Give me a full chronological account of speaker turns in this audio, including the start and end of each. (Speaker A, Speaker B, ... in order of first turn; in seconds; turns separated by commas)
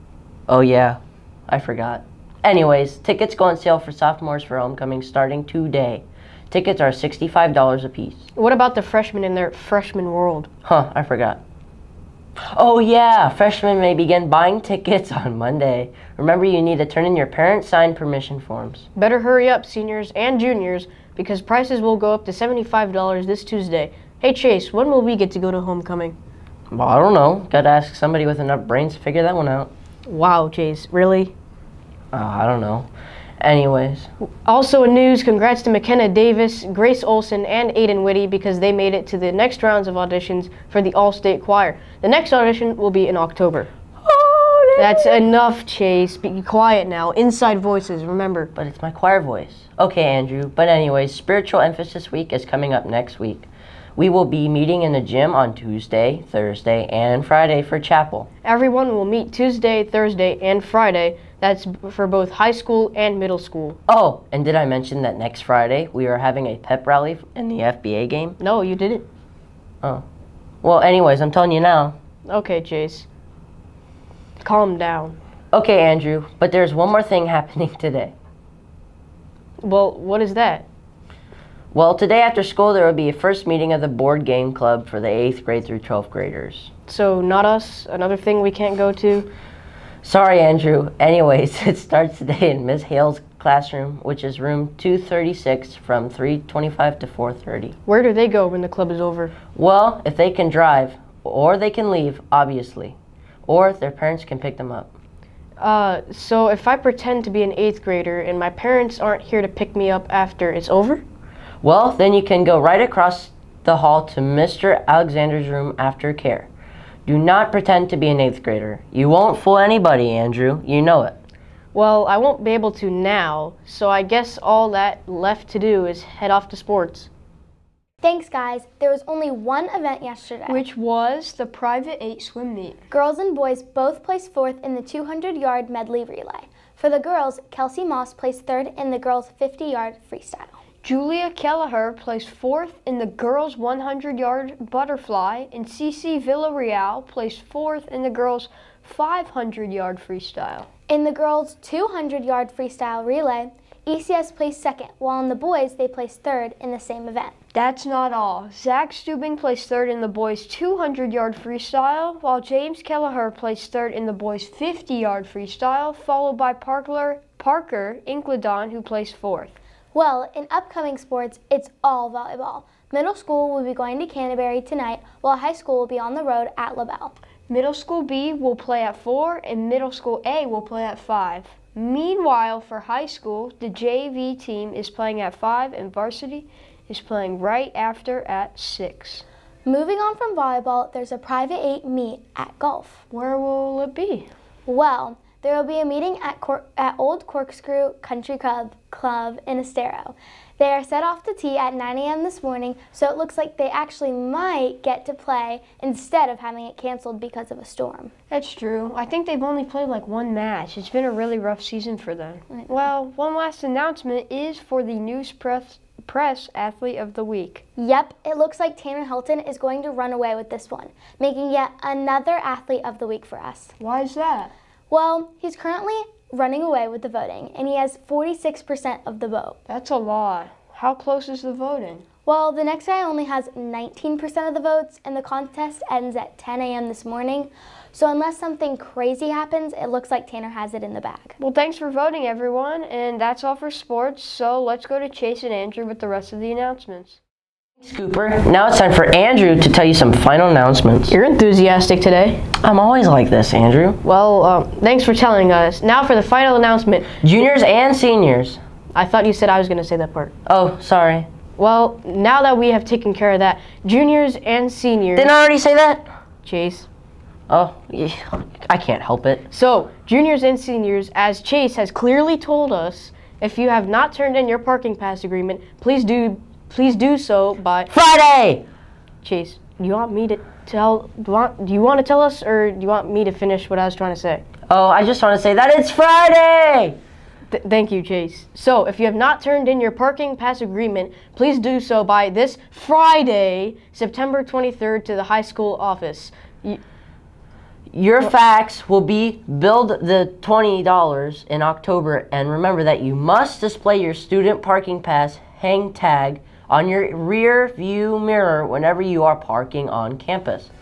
Speaker A: 0.5-8.3, Speaker B: 8.3-10.5, Speaker A: 10.6-11.4, Speaker A: 12.4-18.9, Speaker B: 18.9-26.1, Speaker A: 26.7-29.7, Speaker B: 30.1-31.3, Speaker A: 32.1-32.9, Speaker A: 33.4-34.1, Speaker B: 34.4-43.7, Speaker A: 44.0-45.2, Speaker B: 44.8-48.5, Speaker A: 48.5-58.3, Speaker B: 58.4-63.8, Speaker A: 63.9-68.4, Speaker B: 68.4-69.1, Speaker A: 70.6-72.0, Speaker B: 72.2-73.0, Speaker B: 74.4-75.2, Speaker A: 75.5-78.1, Speaker B: 79.6-80.7, Speaker A: 81.7-86.7, Speaker B: 86.9-89.3, Speaker A: 90.0-97.7, Speaker B: 97.8-99.3, Speaker A: 99.5-104.9, Speaker B: 105.6-111.0, Speaker A: 111.6-116.5, Speaker A: 117.0-121.2, Speaker B: 121.7-127.1, Speaker C: 128.0-130.6, Speaker D: 130.5-132.8, Speaker C: 132.9-140.6, Speaker D: 140.8-150.7, Speaker C: 150.9-157.3, Speaker D: 157.5-169.6, Speaker C: 169.9-177.1, Speaker D: 177.5-189.2, Speaker C: 189.6-193.0, Speaker D: 193.1-194.3, Speaker C: 194.7-208.1, Speaker D: 208.3-217.6, Speaker C: 212.5-212.8, Speaker C: 217.8-223.7, Speaker D: 223.8-224.5, Speaker C: 224.9-229.6, Speaker D: 229.7-232.0, Speaker C: 232.2-241.3, Speaker D: 241.4-247.2, Speaker A: 247.8-251.1, Speaker B: 251.1-252.4, Speaker A: 252.6-254.0, Speaker B: 254.0-257.1, Speaker A: 257.2-258.6, Speaker B: 258.9-260.3, Speaker A: 260.4-261.3, Speaker B: 261.6-265.3, Speaker A: 265.1-266.1, Speaker B: 266.4-266.9, Speaker A: 267.5-269.4, Speaker B: 269.5-277.9, Speaker A: 277.9-278.6, Speaker B: 279.2-284.4, Speaker A: 284.7-287.0, Speaker B: 287.5-296.8, Speaker A: 297.9-310.7